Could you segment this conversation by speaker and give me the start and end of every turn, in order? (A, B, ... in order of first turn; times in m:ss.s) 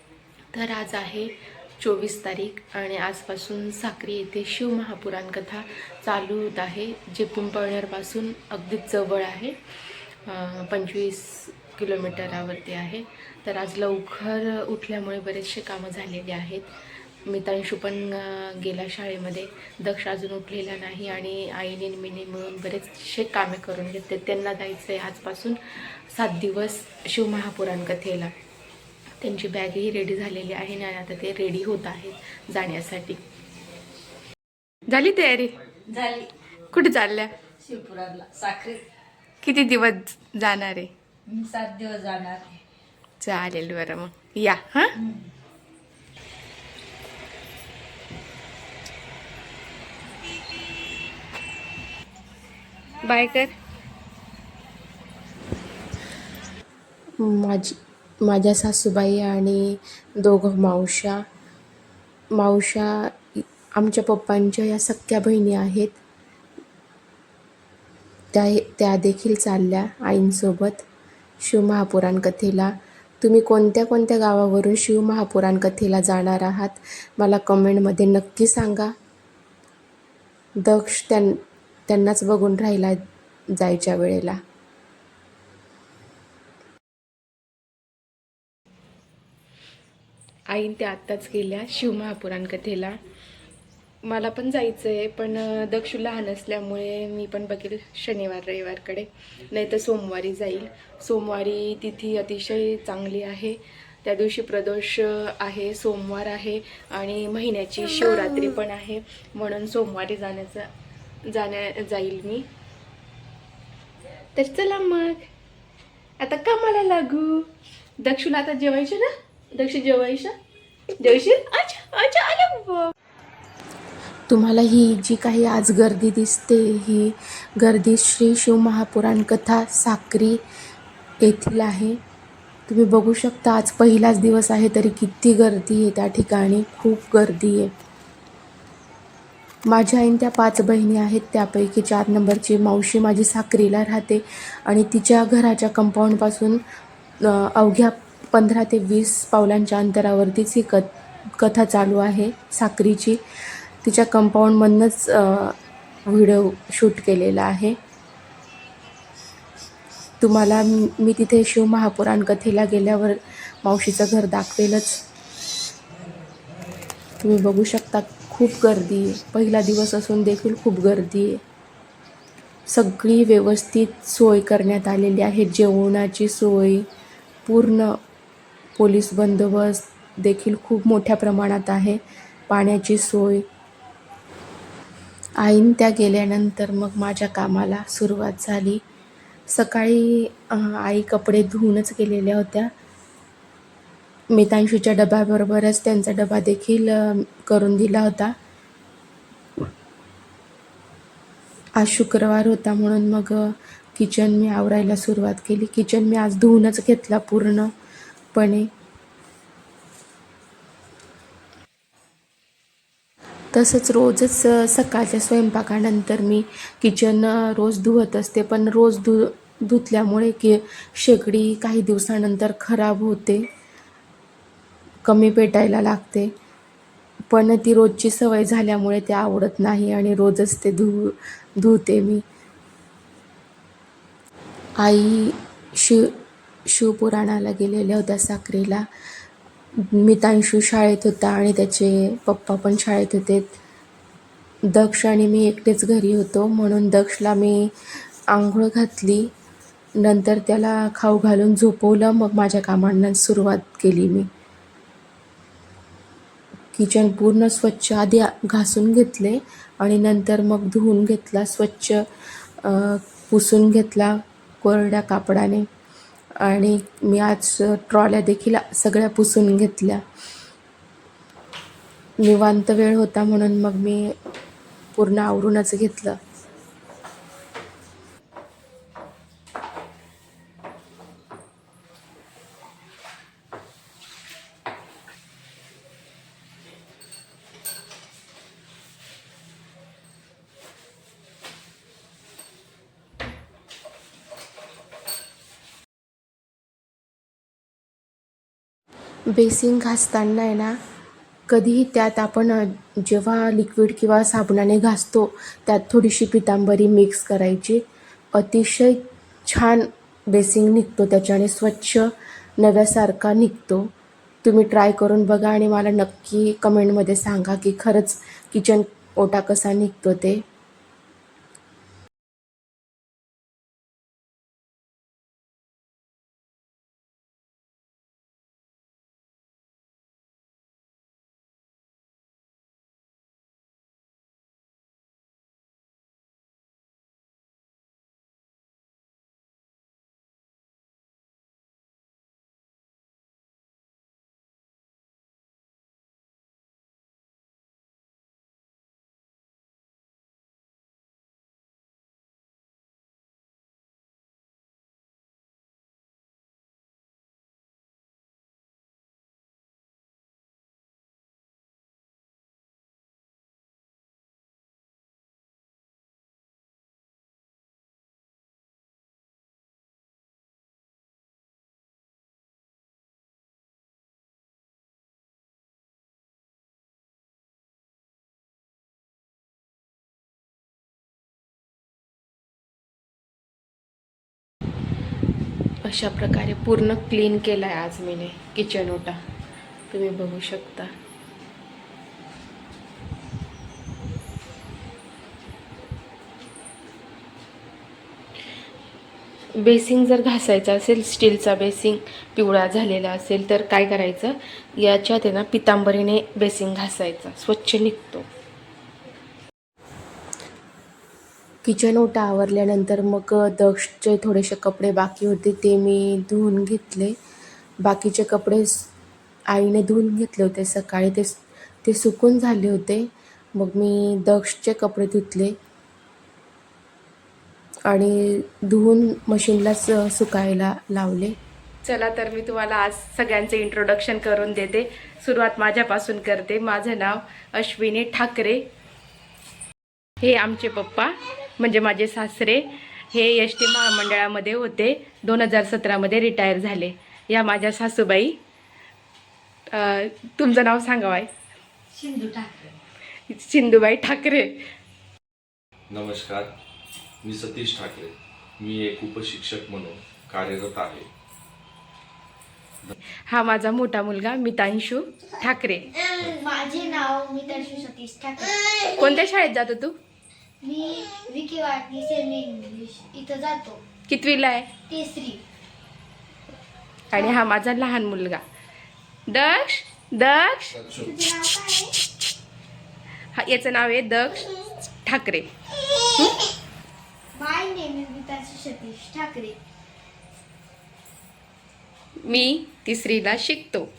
0:00.5-0:09.6 A
0:10.2-0:16.7 A
0:17.2-0:25.6 A
0:26.1-0:28.3 A
0:29.2-0:33.2 A
0:34.9-0:35.5 A
0:35.9-0:36.3 B
0:36.7-0:37.3 A
0:37.6-0:38.8 B
0:39.4-0:40.9 A
0:41.3-0:42.6 B
0:43.2-0:44.9 A
0:45.0-0:45.2 B
0:53.0-0:53.5 A
0:57.2-1:01.2 A
1:02.3-1:06.0 A
1:08.3-1:10.8 A
1:11.4-1:18.9 A
1:20.6-1:24.4 A
1:30.5-1:33.0 A
1:34.0-1:50.7 A
1:51.2-1:52.5 A
1:54.4-1:55.2 A
1:56.2-1:57.5 A
1:58.0-2:00.3 A
2:01.0-2:02.9 A
2:04.3-2:10.4 A
2:11.2-2:12.0 A
2:12.7-2:17.7 A
2:19.6-2:26.6 A
2:27.2-2:33.2 A
2:33.8-2:37.8 A
2:40.2-2:45.0 A
2:47.2-2:51.4 A
2:52.7-2:56.8 A
2:57.4-2:58.0 A
2:58.8-3:03.4 A
3:05.4-3:08.8 A
3:09.5-3:12.7 A
3:14.3-3:18.3 A
3:21.8-3:27.7 A
3:28.3-3:28.7 A
3:33.5-3:43.4 A
3:45.0-3:46.3 A
3:47.3-3:52.2 A
3:54.8-3:58.9 A
3:59.8-4:03.5 A
4:04.7-4:07.7 A
4:08.3-4:09.3 A
4:10.0-4:14.3 A
4:16.7-4:22.0 A
4:22.6-4:25.6 A
4:26.4-4:30.0 A
4:32.2-4:34.2 A
4:35.0-4:36.2 A
4:59.3-5:00.8 A
5:01.5-5:13.9 A
5:14.4-5:20.4 A
6:25.8-6:29.2 A
6:29.9-6:30.9 A
6:39.6-6:48.3 A
6:51.6-6:57.2 A
6:57.8-6:58.9 A
6:59.5-7:05.6 A
7:07.8-7:18.6 A
7:20.2-7:28.4 A
7:29.7-7:31.3 A
7:31.9-7:32.8 B
7:33.3-7:34.5 A
7:35.9-7:36.5 C
7:37.2-7:41.1 C
7:43.3-7:45.8 A
7:46.0-7:49.0 D
7:49.0-7:49.9 A
7:50.6-7:53.8 D
7:54.1-7:54.7 A
7:54.9-7:55.4 D
7:57.1-7:58.4 A
7:59.3-8:00.7 A
8:00.8-8:01.1 C
8:00.9-8:01.9 D
8:03.3-8:04.4 A
8:05.0-8:05.5 A
8:07.3-8:09.6 D
8:12.2-8:13.9 A